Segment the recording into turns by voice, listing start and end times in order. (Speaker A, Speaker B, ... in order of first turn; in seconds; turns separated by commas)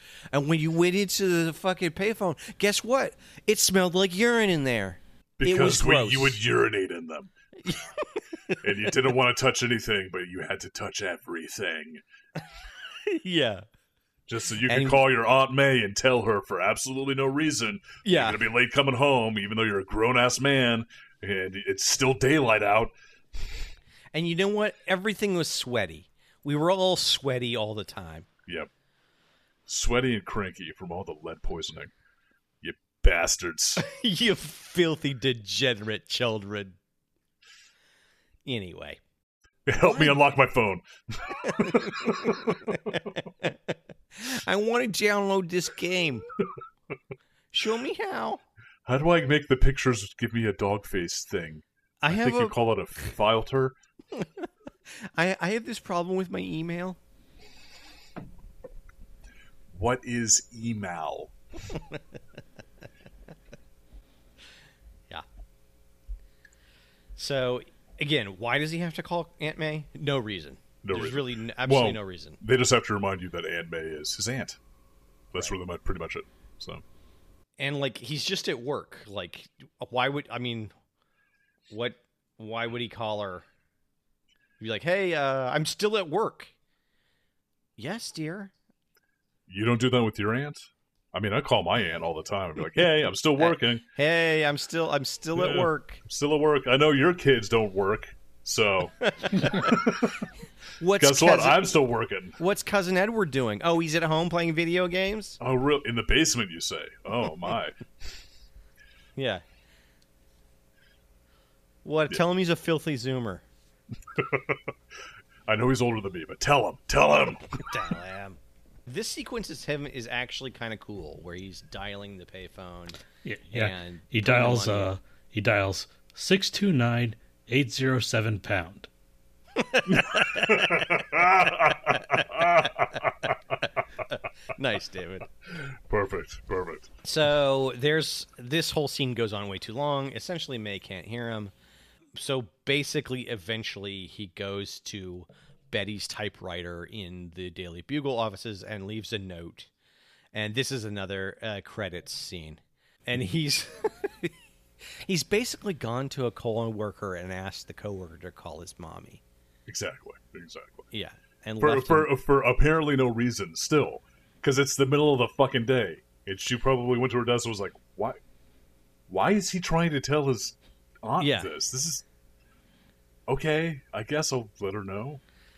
Speaker A: 0.3-6.4, Speaker B: 5.4-7.3, Speaker A: 7.6-9.0, Speaker B: 8.6-12.0, Speaker A: 13.0-13.7, Speaker B: 14.3-22.9, Speaker A: 14.6-15.0, Speaker A: 18.0-18.4, Speaker A: 24.1-28.3, Speaker B: 29.7-31.9, Speaker B: 32.6-33.9, Speaker A: 33.8-36.8, Speaker A: 38.5-39.0, Speaker B: 39.7-43.0, Speaker A: 39.8-40.2, Speaker A: 41.4-46.3, Speaker A: 47.5-48.4, Speaker B: 48.9-53.8, Speaker A: 52.0-52.5, Speaker A: 54.1-57.0, Speaker B: 59.7-61.3, Speaker A: 67.2-72.4, Speaker B: 70.8-74.6, Speaker B: 75.3-76.8, Speaker A: 77.6-80.7, Speaker A: 81.7-83.5, Speaker A: 84.6-86.5, Speaker A: 87.8-88.5, Speaker B: 89.5-93.8, Speaker A: 93.4-96.0, Speaker B: 95.3-100.3, Speaker A: 99.0-99.9, Speaker A: 100.8-101.7, Speaker B: 101.0-102.4, Speaker A: 102.4-105.4, Speaker B: 105.4-107.8, Speaker A: 109.2-109.4, Speaker A: 111.8-113.4, Speaker B: 114.1-114.6, Speaker B: 115.5-117.6, Speaker A: 117.5-124.9, Speaker C: 123.2-128.9, Speaker A: 129.6-130.9, Speaker B: 129.9-133.3, Speaker A: 132.2-132.7, Speaker A: 133.6-135.3, Speaker B: 135.5-136.9, Speaker A: 137.0-141.5, Speaker A: 142.1-149.7, Speaker A: 150.3-159.2, Speaker B: 159.7-160.9, Speaker A: 160.9-162.1, Speaker B: 161.6-168.2, Speaker B: 169.1-172.1, Speaker A: 171.2-171.5, Speaker B: 173.3-175.2